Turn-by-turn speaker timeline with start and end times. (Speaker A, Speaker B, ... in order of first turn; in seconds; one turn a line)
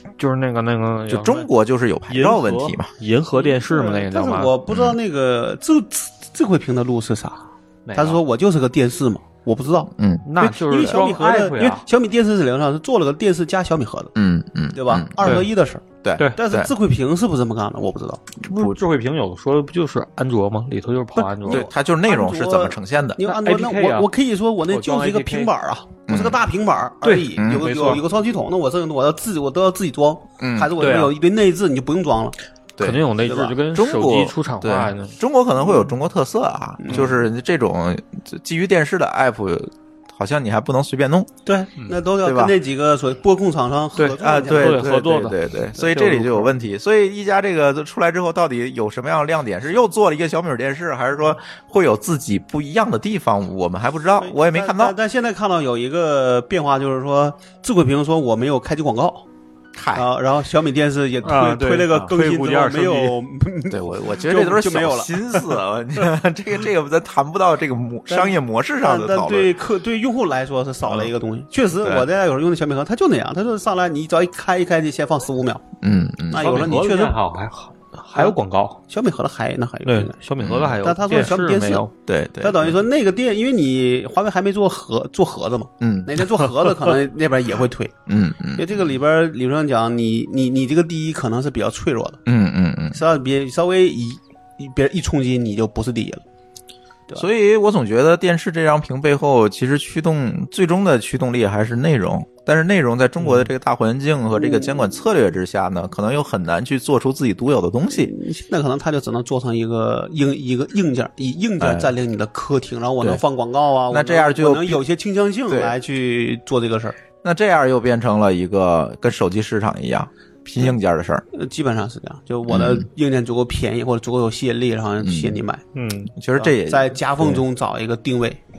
Speaker A: 0.2-1.5
Speaker B: 1.1-2.9
Speaker A: 2.1-4.5
Speaker C: 3.3-14.1
Speaker B: 4.7-5.0
Speaker A: 7.9-8.2
Speaker B: 10.0-11.0
Speaker A: 10.3-11.8
Speaker B: 14.2-15.4
Speaker C: 14.7-18.2
Speaker A: 15.2-15.5
Speaker B: 16.0-16.7
Speaker A: 18.5-21.7
Speaker B: 18.5-18.8
Speaker C: 21.1-32.4
Speaker B: 21.5-23.2
Speaker A: 23.2-24.1
Speaker A: 24.7-25.5
Speaker B: 26.1-26.4
Speaker A: 27.0-28.0
Speaker B: 27.4-27.9
Speaker B: 30.4-30.7
Speaker A: 30.8-31.1
Speaker B: 32.8-33.0
Speaker A: 32.8-35.2
Speaker C: 33.2-33.5
Speaker B: 33.7-41.3
Speaker C: 36.8-37.2
Speaker C: 41.5-44.8
Speaker B: 42.2-42.5
Speaker A: 44.0-46.5
Speaker B: 44.2-55.0
Speaker C: 54.2-59.2
Speaker B: 59.8-60.0
Speaker C: 60.0-65.5
Speaker A: 61.2-63.2
Speaker B: 63.7-69.5
Speaker C: 68.1-75.6
Speaker B: 70.8-71.1
Speaker B: 71.8-72.0
Speaker B: 75.8-76.7
Speaker C: 76.3-77.2
Speaker A: 76.4-78.8
Speaker C: 78.9-80.1
Speaker A: 79.8-81.9
Speaker B: 80.4-82.8
Speaker C: 80.8-81.9
Speaker C: 82.4-88.0
Speaker B: 85.8-86.2
Speaker B: 88.1-88.9
Speaker C: 88.5-92.2
Speaker B: 92.3-93.0
Speaker C: 92.9-96.2
Speaker B: 97.2-108.1
Speaker C: 104.4-104.9
Speaker C: 108.0-117.0
Speaker B: 111.6-111.9
Speaker B: 113.9-114.8
Speaker B: 115.5-115.8
Speaker B: 117.2-121.2
Speaker C: 121.3-125.6
Speaker B: 122.5-122.8
Speaker B: 125.0-125.4
Speaker A: 125.7-126.1
Speaker B: 126.2-127.4
Speaker C: 126.4-128.4